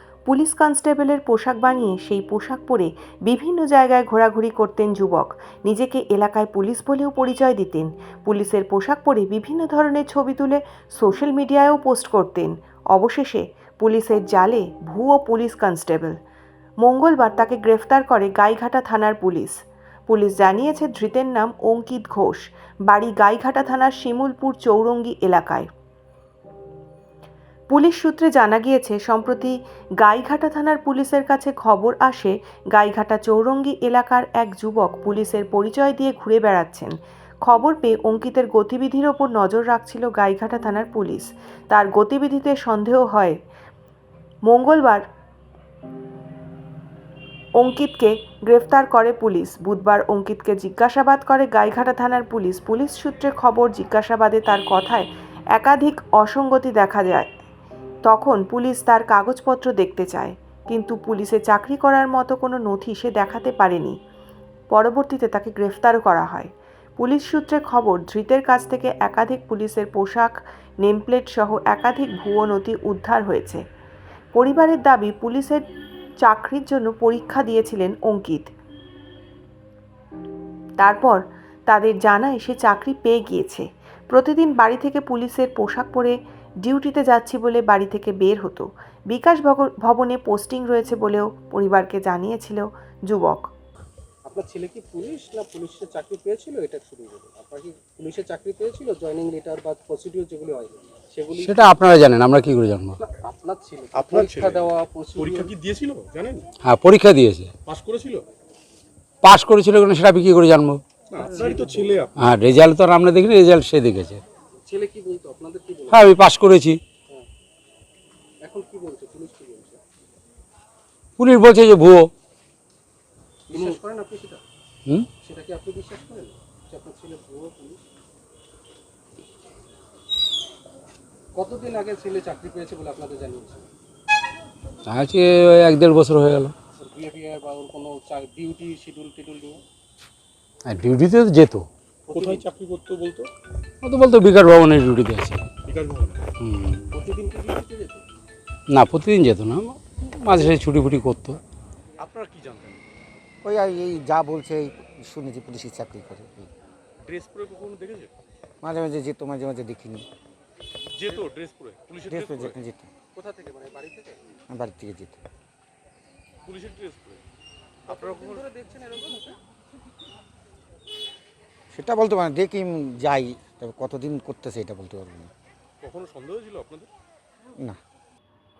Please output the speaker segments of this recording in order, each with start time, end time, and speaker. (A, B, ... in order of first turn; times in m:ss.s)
0:00.3-0:16.2 A
0:16.8-0:25.7 A
0:27.7-0:36.9 A
0:37.4-0:43.4 A
0:44.4-0:45.0 A
0:47.6-0:57.3 A
0:58.0-1:04.0 A
1:04.7-1:13.6 A
1:14.3-1:15.6 A
1:16.2-1:18.5 A
1:20.8-1:33.4 A
1:34.2-1:41.7 B
1:41.4-1:43.0 C
1:43.0-1:45.5 B
1:43.9-1:46.5 D
1:46.6-1:47.5 C
1:47.6-1:48.3 D
1:49.2-1:50.8 C
1:51.1-1:52.2 D
1:51.2-1:52.0 B
1:52.2-1:54.2 C
1:54.6-1:56.2 B
1:55.9-1:56.8 C
1:58.4-1:59.8 B
2:01.2-2:02.1 C
2:03.5-2:04.4 B
2:05.2-2:07.8 B
2:11.3-2:13.7 B
2:14.9-2:16.5 C
2:16.8-2:19.6 B
2:20.6-2:21.6 C
2:22.1-2:22.4 B
2:22.1-2:23.3 D
2:23.8-2:25.5 C
2:25.6-2:26.3 D
2:26.4-2:26.9 C
2:26.9-2:28.0 B
2:28.7-2:31.4 C
2:32.0-2:32.9 D
2:33.4-2:36.5 E
2:37.0-2:38.1 D
2:38.6-2:40.0 E
2:40.9-2:42.5 D
2:42.1-2:42.9 E
2:43.1-2:44.2 B
2:44.5-2:45.2 E
2:46.4-2:47.2 D
2:47.9-2:49.4 B
2:47.9-2:48.5 D
2:51.7-2:55.3 E
2:55.8-2:56.9 D